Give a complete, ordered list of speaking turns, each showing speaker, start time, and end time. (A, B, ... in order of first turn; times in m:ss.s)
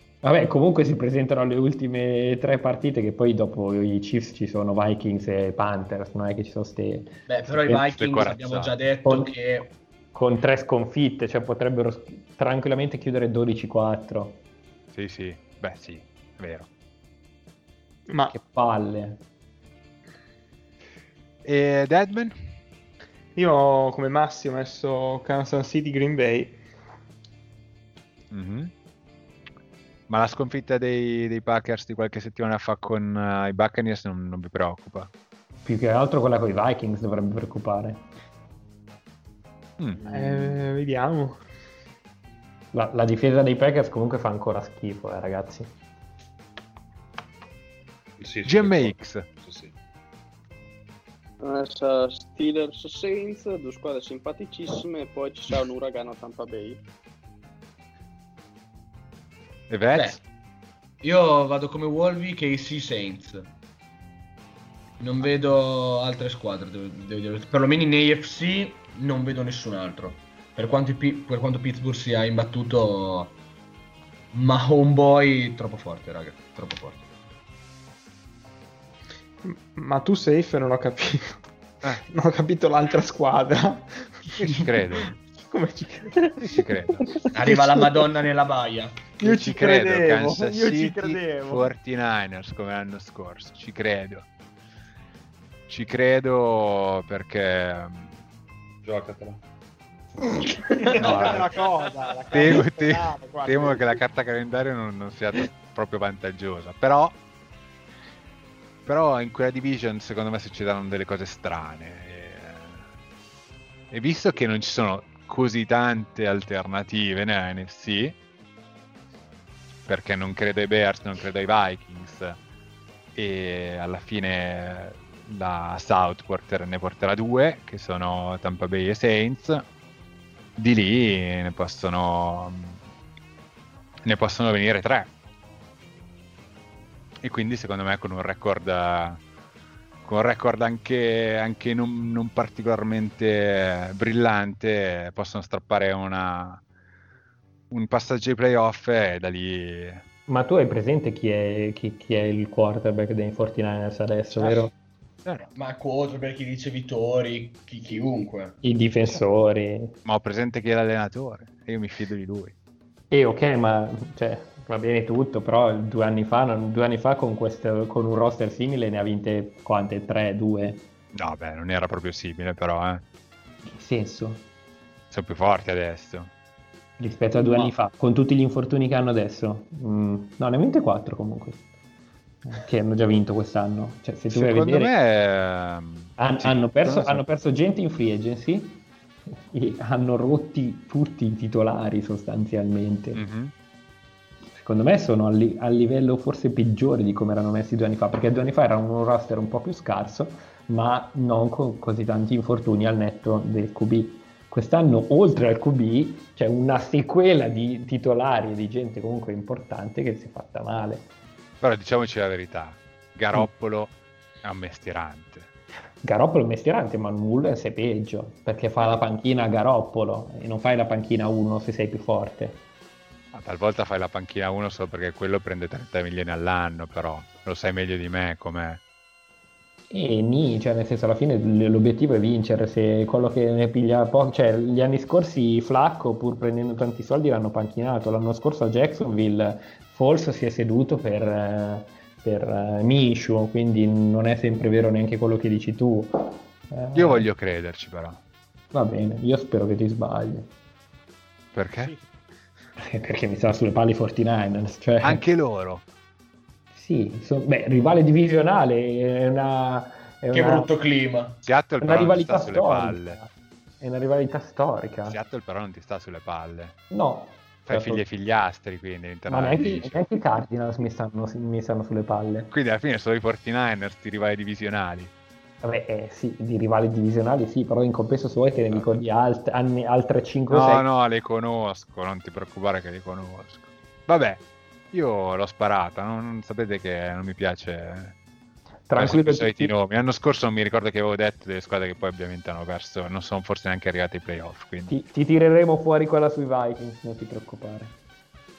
0:00.2-0:07.2 A
0:07.3-0:09.7 B
0:07.5-0:08.7 C
0:09.0-0:09.3 A
0:10.1-0:14.4 A
0:14.9-0:16.7 C
0:18.1-0:18.3 D
0:18.3-0:19.2 A
0:21.4-0:22.3 C
0:23.4-0:26.6 D
0:28.3-0:28.7 C
0:30.1-0:35.1 C
0:35.6-0:38.0 A
0:39.9-0:40.6 E
0:40.1-0:41.4 D
0:42.7-0:45.7 A
0:48.2-0:49.7 E
0:48.4-0:49.2 C
0:51.4-0:56.8 F
0:59.7-1:00.2 C
1:01.0-1:03.5 B
1:05.0-1:13.3 B
1:14.3-1:17.0 B
1:19.4-1:21.4 D
1:22.1-1:28.1 D
1:24.4-1:25.1 C
1:26.4-1:27.1 C
1:27.3-1:29.1 B
1:29.2-1:31.7 D
1:29.2-1:34.2 C
1:35.7-1:38.2 C
1:38.8-1:39.4 E
1:40.8-1:43.9 D
1:40.8-1:41.6 E
1:41.0-1:41.6 C
1:42.3-1:47.2 C
1:48.8-1:52.8 C
1:53.9-1:58.2 C
1:59.8-2:02.4 C
2:03.1-2:09.6 C
2:10.6-2:12.8 C
2:14.0-2:15.1 C
2:17.2-2:19.2 C
2:20.0-2:26.6 C
2:27.7-2:30.0 C
2:30.3-2:34.7 A
2:34.4-2:34.6 B
2:35.5-2:38.6 B
2:38.6-2:39.9 A
2:40.0-2:42.5 C
2:43.1-2:50.8 A
2:51.1-2:53.0 C
2:53.7-2:54.4 A
2:55.1-2:56.3 C
2:57.0-3:01.6 A
3:02.4-3:04.9 A
3:04.3-3:07.2 C
3:06.2-3:13.2 A
3:13.1-3:13.5 C
3:14.6-3:31.1 A
3:31.6-3:35.5 C
3:36.0-3:42.6 A
3:43.3-3:48.8 C
3:49.9-4:07.3 A
4:06.9-4:08.2 C
4:08.7-4:10.5 A
4:11.5-4:11.9 C
4:12.8-4:15.2 A
4:15.0-4:15.8 C
4:16.7-4:20.7 A
4:20.3-4:21.4 B
4:21.4-4:23.2 C
4:21.8-4:25.2 A
4:25.0-4:26.8 C
4:26.9-4:28.0 A
4:27.7-4:30.0 C
4:29.3-4:32.5 A
4:32.5-4:35.1 C
4:35.6-4:40.8 A
4:38.7-4:39.0 C
4:40.5-4:48.2 C
4:48.9-4:49.7 A
4:48.9-4:54.9 C
4:54.9-4:57.9 A